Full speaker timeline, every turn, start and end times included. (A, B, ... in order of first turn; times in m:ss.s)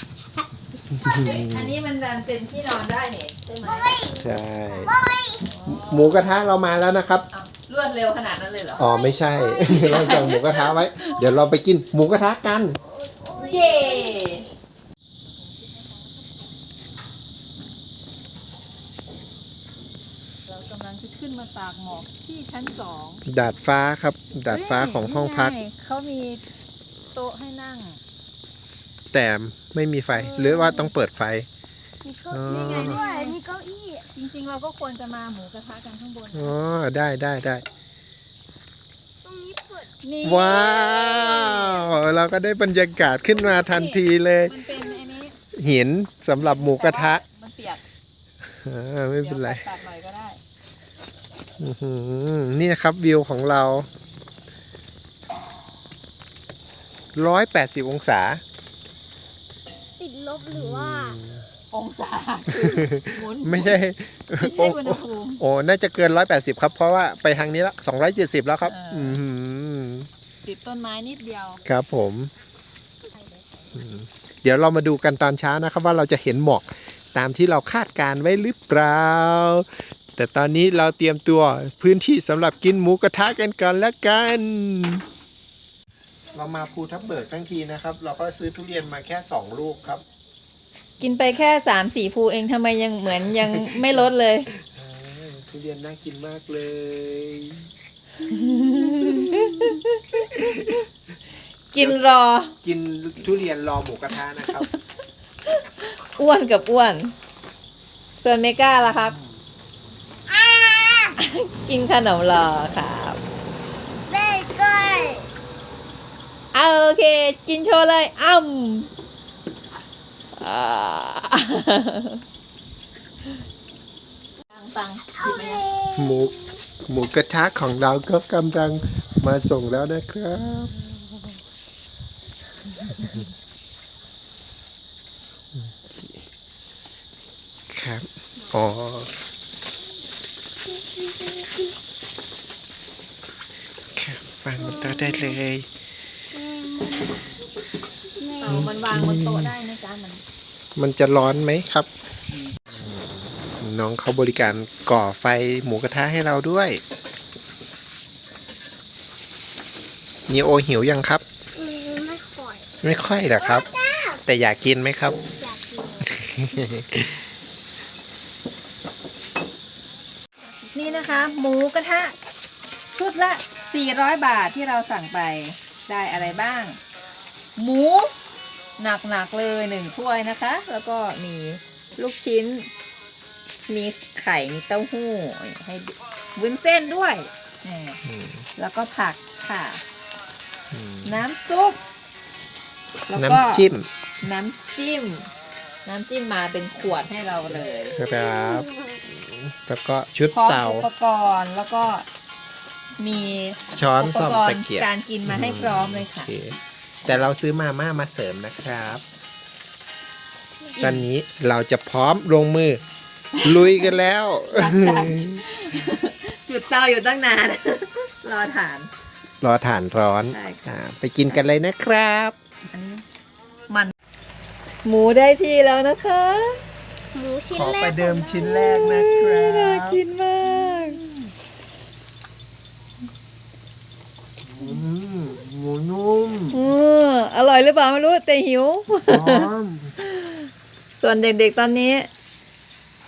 0:01.0-0:01.7 A
0:01.0-0:04.0 B
0:03.9-0:04.2 C
0:04.2-0:05.0 A
0:04.8-0:05.4 C
0:05.4-0:06.3 B
0:05.7-0:07.2 A
0:07.3-0:08.9 B
0:08.8-0:12.8 A
0:09.1-0:10.4 C
0:09.6-0:11.1 B
0:12.9-0:14.3 C
0:13.4-0:14.5 B
0:15.2-0:16.2 B
0:20.5-0:23.2 B
0:23.3-0:25.6 A
0:24.5-0:26.4 B
0:27.1-0:28.0 B
0:29.1-0:31.5 A
0:30.3-0:30.8 C
0:30.6-0:30.8 B
0:32.0-0:34.1 C
0:32.3-0:33.0 A
0:32.6-0:33.4 B
0:34.1-0:36.6 B
0:36.3-0:37.6 A
0:39.2-0:40.0 C
0:40.0-0:42.0 B
0:40.2-0:44.6 A
0:43.4-0:45.4 B
0:45.5-0:47.2 A
0:46.5-0:47.8 B
0:48.5-0:49.6 A
0:49.2-0:50.4 B
0:51.6-0:53.9 A
0:57.2-0:58.4 A
1:00.0-1:01.2 C
1:00.5-1:01.4 A
1:01.7-1:03.8 B
1:02.5-1:10.1 A
1:04.4-1:05.4 B
1:08.6-1:09.2 B
1:10.4-1:11.6 B
1:11.6-1:12.3 A
1:13.7-1:25.0 A
1:26.3-1:30.0 A
1:31.0-1:34.5 B
1:33.5-1:33.8 A
1:34.6-1:37.7 A
1:38.3-1:40.6 B
1:38.9-1:39.8 A
1:40.3-1:40.8 A
1:41.7-1:42.6 B
1:42.6-1:44.7 A
1:45.5-1:47.1 B
1:48.2-1:49.2 B
1:50.3-1:51.2 C
1:51.2-1:53.2 B
1:54.1-1:55.3 C
1:56.5-1:58.9 B
2:00.4-2:02.2 B
2:04.5-2:05.7 B
2:05.2-2:06.5 C
2:05.9-2:10.7 A
2:15.6-2:16.2 A
2:17.7-2:19.1 A
2:20.7-2:21.7 C
2:24.0-2:25.7 A
2:24.6-2:25.4 C
2:26.3-2:27.2 C
2:28.2-2:28.7 C
2:28.4-2:30.2 B
2:28.5-2:29.5 A
2:30.8-2:31.9 A
2:32.7-2:36.8 A
2:40.3-2:41.2 A
2:41.6-2:42.7 C
2:42.8-2:43.7 A
2:43.4-2:44.2 C
2:44.2-2:45.2 A
2:45.4-2:46.2 C
2:46.0-2:47.2 A
2:50.7-2:52.2 B
2:53.0-2:56.8 B
2:57.6-2:58.1 B
2:58.8-3:02.7 B
3:03.7-3:08.0 B
3:08.1-3:08.4 A
3:08.6-3:09.8 B
3:10.7-3:11.2 A
3:11.0-3:11.8 B
3:13.1-3:13.6 B
3:13.1-3:13.9 A
3:14.2-3:15.3 B
3:15.9-3:18.0 B
3:17.8-3:20.9 A
3:18.1-3:18.7 C
3:20.3-3:22.1 B
3:23.0-3:26.3 B
3:23.7-3:29.0 A
3:30.8-3:31.0 B
3:30.8-3:32.8 A
3:33.4-3:33.8 B
3:33.4-3:35.4 A
3:34.5-3:38.9 B
3:39.4-3:42.4 A
3:40.3-3:40.8 B
3:42.7-3:43.0 B
3:44.8-3:46.6 B
3:47.1-3:48.7 C
3:47.5-3:50.0 A
3:48.7-3:51.0 B
3:54.4-3:56.6 A
3:56.5-3:59.5 B
3:59.1-3:59.9 A
4:00.0-4:00.4 B
4:01.0-4:02.1 B